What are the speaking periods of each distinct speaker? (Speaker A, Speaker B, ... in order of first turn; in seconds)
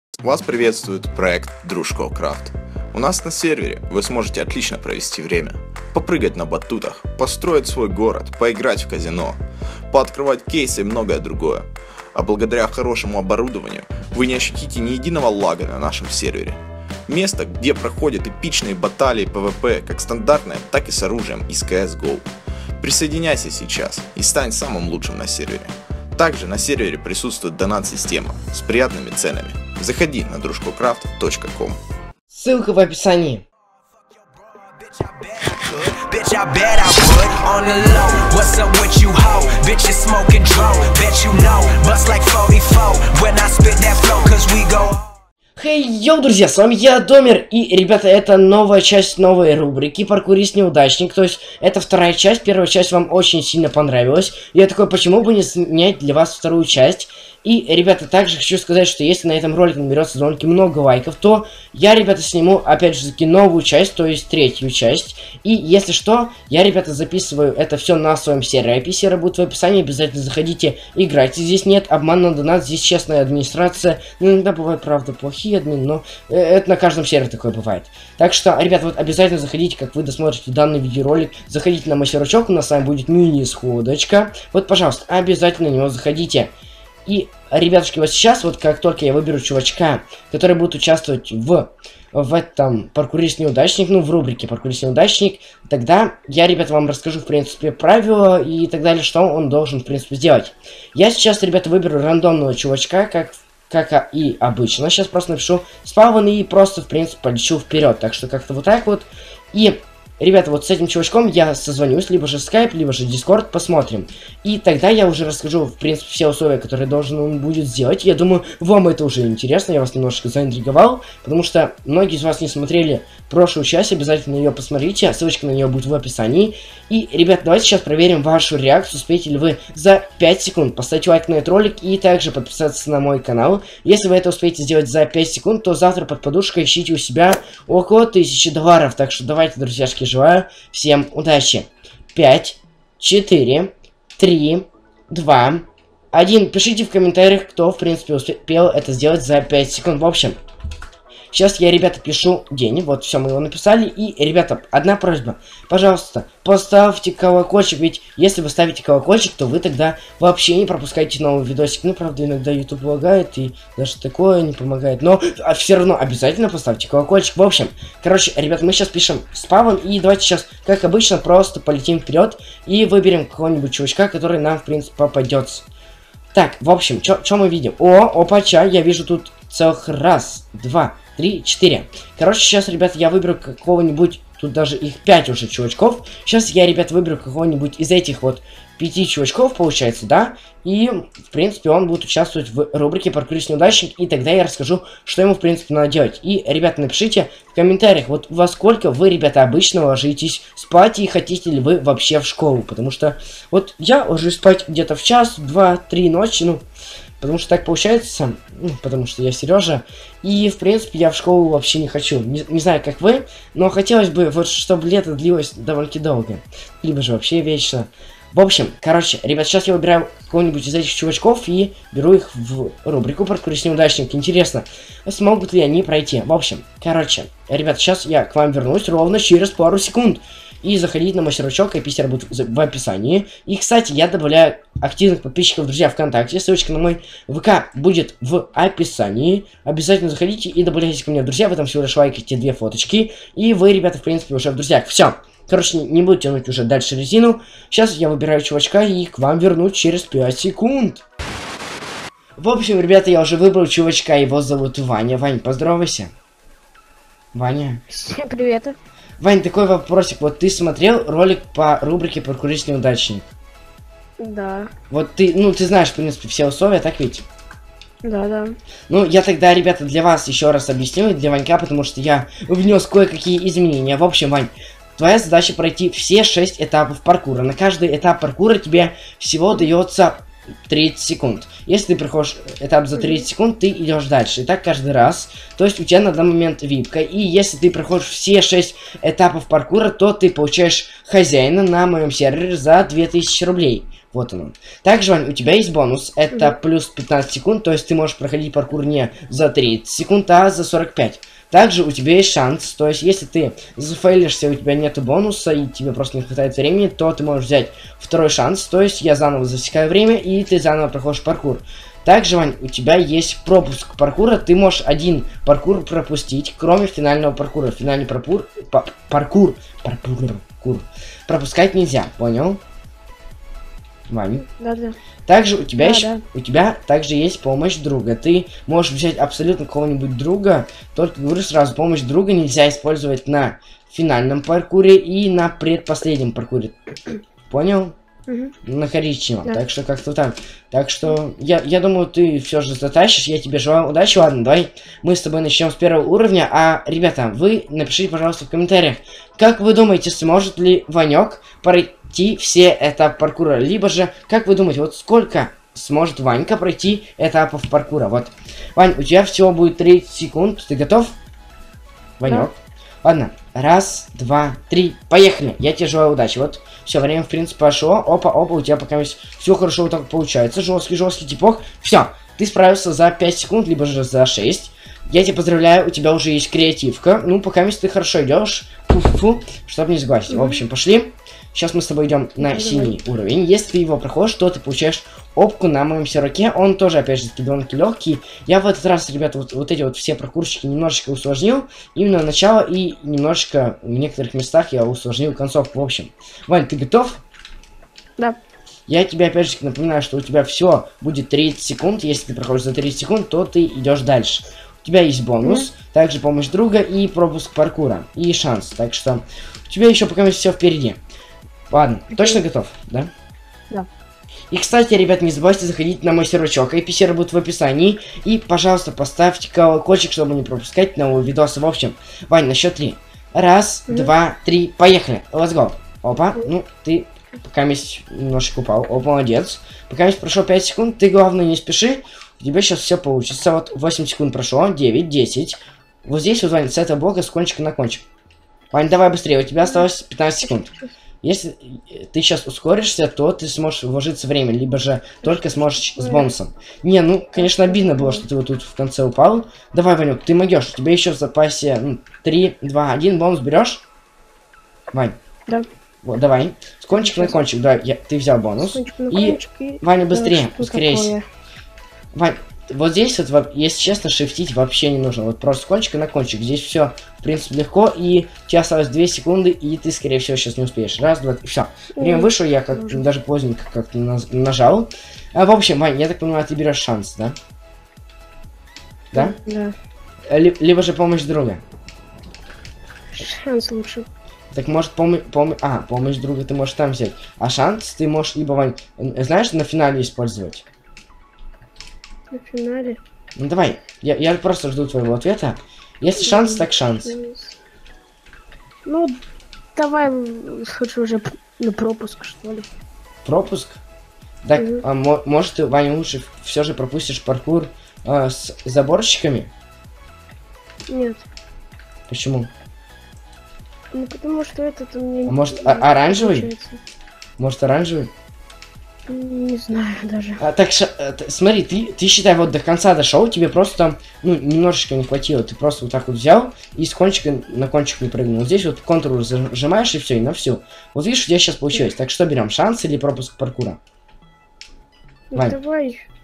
Speaker A: 0.2-9.4, 9.9-22.2, 22.8-31.8
Speaker B: 32.3-33.4, 45.5-86.5, 87.0-150.4, 151.3-175.7, 176.3-206.6, 207.2-251.0, 252.4-256.1, 257.3-257.8, 259.2-263.3, 264.9-267.2, 268.9-322.6, 324.1-324.4, 325.2-337.9, 338.6-361.1, 362.2-397.2, 398.9-411.0, 411.7-413.1, 414.5-438.0, 438.7-453.8, 456.0-461.1, 462.1-477.4, 480.3-481.6, 484.5-490.6, 493.4-497.1, 503.2-503.8, 504.4-509.5, 512.1-512.5, 515.2-516.5, 517.4-518.1, 520.4-533.8
Speaker C: 34.3-45.1
Speaker D: 257.9-258.8, 264.2-264.7, 268.0-268.5, 282.9-283.2, 324.4-325.0, 325.8-326.2, 338.3-338.5, 380.3-380.6, 382.4-382.9, 405.4-405.7, 412.1-412.4, 423.9-424.1, 440.4-440.9, 445.2-446.2, 447.4-448.3, 456.9-457.4, 458.6-461.2, 471.9-473.0, 479.1-479.7, 483.1-484.1, 492.3-493.0, 496.2-497.6, 498.8-499.2, 499.7-502.7, 504.6-504.8, 510.9-511.2, 513.9-516.8, 519.1-520.4, 535.3-536.1